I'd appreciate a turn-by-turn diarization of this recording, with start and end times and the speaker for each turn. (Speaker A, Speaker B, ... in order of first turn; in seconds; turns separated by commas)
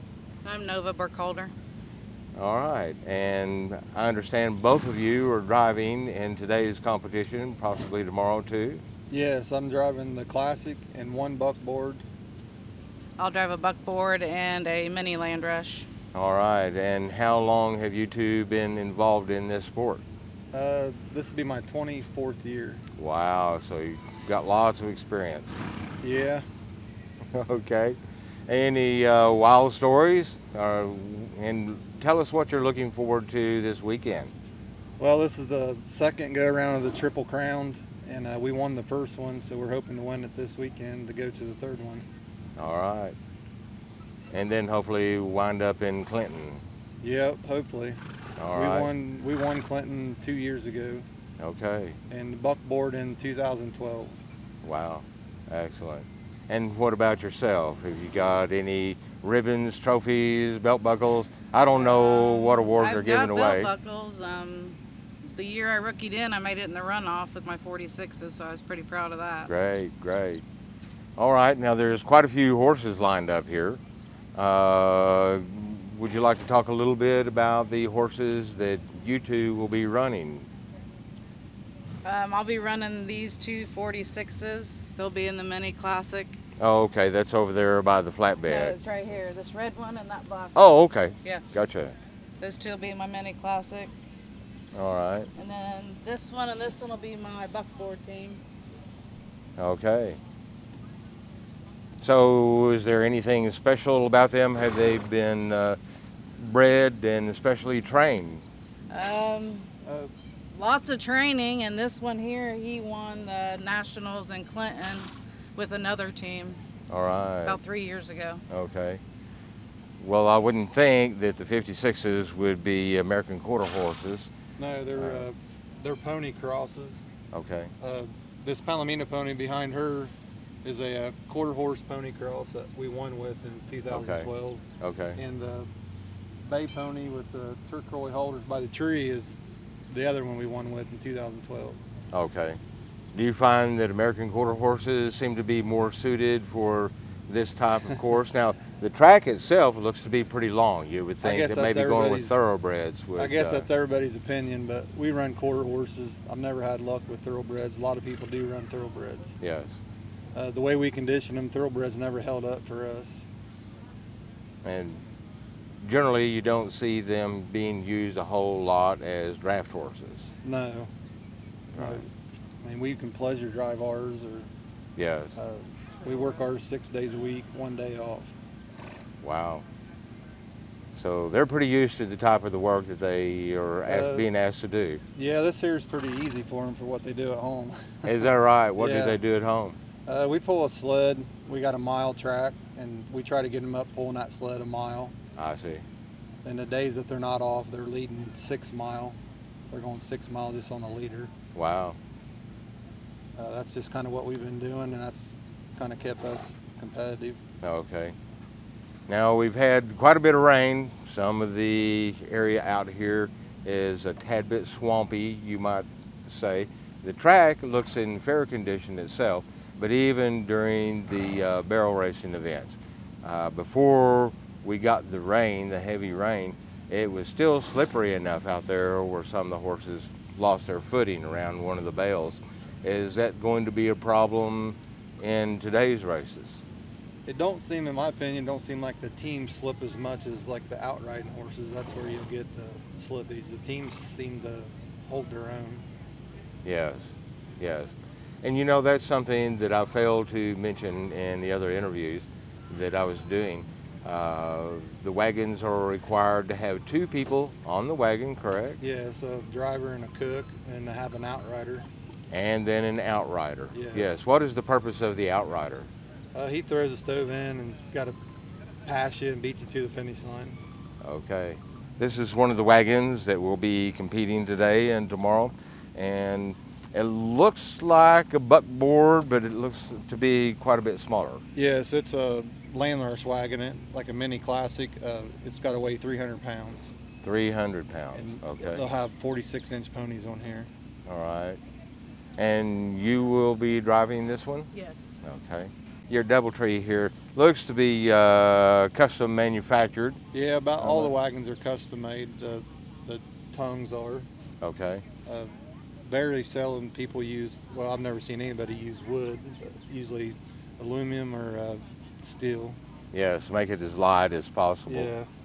Speaker A: 0.4-1.5, Speaker B: 2.3-8.8, Speaker C: 9.1-12.0, Speaker A: 13.2-15.9, Speaker B: 16.1-20.0, Speaker C: 20.5-22.8, Speaker B: 23.0-25.5, Speaker C: 26.0-26.4, Speaker B: 27.3-34.3, Speaker C: 35.0-42.1, Speaker B: 42.6-43.1, Speaker B: 44.3-46.6, Speaker C: 47.0-48.0, Speaker B: 48.4-48.9, Speaker C: 48.5-51.0, Speaker B: 51.4-52.0, Speaker C: 52.1-54.2, Speaker B: 54.6-63.7, Speaker A: 61.7-69.5, Speaker B: 69.5-70.4, Speaker B: 71.2-73.8, Speaker B: 74.3-80.5, Speaker A: 82.0-86.4, Speaker B: 86.6-88.8, Speaker A: 88.4-90.5, Speaker B: 90.5-92.0, Speaker A: 92.4-93.9, Speaker B: 94.7-95.3, Speaker A: 95.3-98.4, Speaker B: 99.6-100.2, Speaker B: 102.0-105.8, Speaker B: 106.3-108.4, Speaker A: 108.9-109.7, Speaker C: 109.8-110.1, Speaker A: 110.5-116.6, Speaker B: 116.9-117.6, Speaker A: 117.5-118.4, Speaker B: 118.5-119.0, Speaker B: 120.0-124.3, Speaker C: 124.6-127.0, Speaker B: 124.9-125.2, Speaker B: 127.3-127.7, Speaker C: 127.8-130.1, Speaker C: 130.6-134.6, Speaker B: 133.9-134.3, Speaker B: 134.8-135.2, Speaker C: 135.2-135.7, Speaker C: 136.4-141.8, Speaker B: 142.1-142.6, Speaker B: 143.1-153.7, Speaker C: 151.2-152.4, Speaker C: 153.2-159.4, Speaker B: 159.4-159.7, Speaker C: 160.3-163.3, Speaker B: 164.6-165.0, Speaker B: 165.8-170.2, Speaker C: 170.4-170.9, Speaker B: 171.7-172.0, Speaker C: 171.8-172.1, Speaker C: 172.6-174.5, Speaker B: 174.9-175.3, Speaker C: 175.3-178.4, Speaker B: 179.2-179.6, Speaker B: 180.9-185.0, Speaker C: 183.8-184.2, Speaker C: 185.1-188.2, Speaker B: 188.0-189.8, Speaker C: 188.8-189.2, Speaker C: 190.1-195.1, Speaker B: 195.3-195.8, Speaker C: 196.4-199.2, Speaker C: 199.7-201.3, Speaker B: 201.5-202.0, Speaker C: 203.3-207.4, Speaker B: 207.6-208.1, Speaker B: 209.1-236.6, Speaker C: 237.2-245.8, Speaker B: 246.6-258.8, Speaker C: 258.8-261.9, Speaker B: 262.3-265.9, Speaker C: 263.7-264.2, Speaker C: 266.3-268.1, Speaker C: 268.8-270.6, Speaker B: 271.0-281.4, Speaker C: 281.5-286.9, Speaker B: 287.2-288.9, Speaker C: 288.1-290.7, Speaker B: 291.1-291.6, Speaker B: 292.4-294.7, Speaker A: 294.7-295.1, Speaker B: 295.2-300.2, Speaker C: 300.3-304.3, Speaker B: 300.8-301.1, Speaker B: 304.6-305.0, Speaker C: 305.2-312.8, Speaker B: 313.1-315.1, Speaker C: 314.9-315.3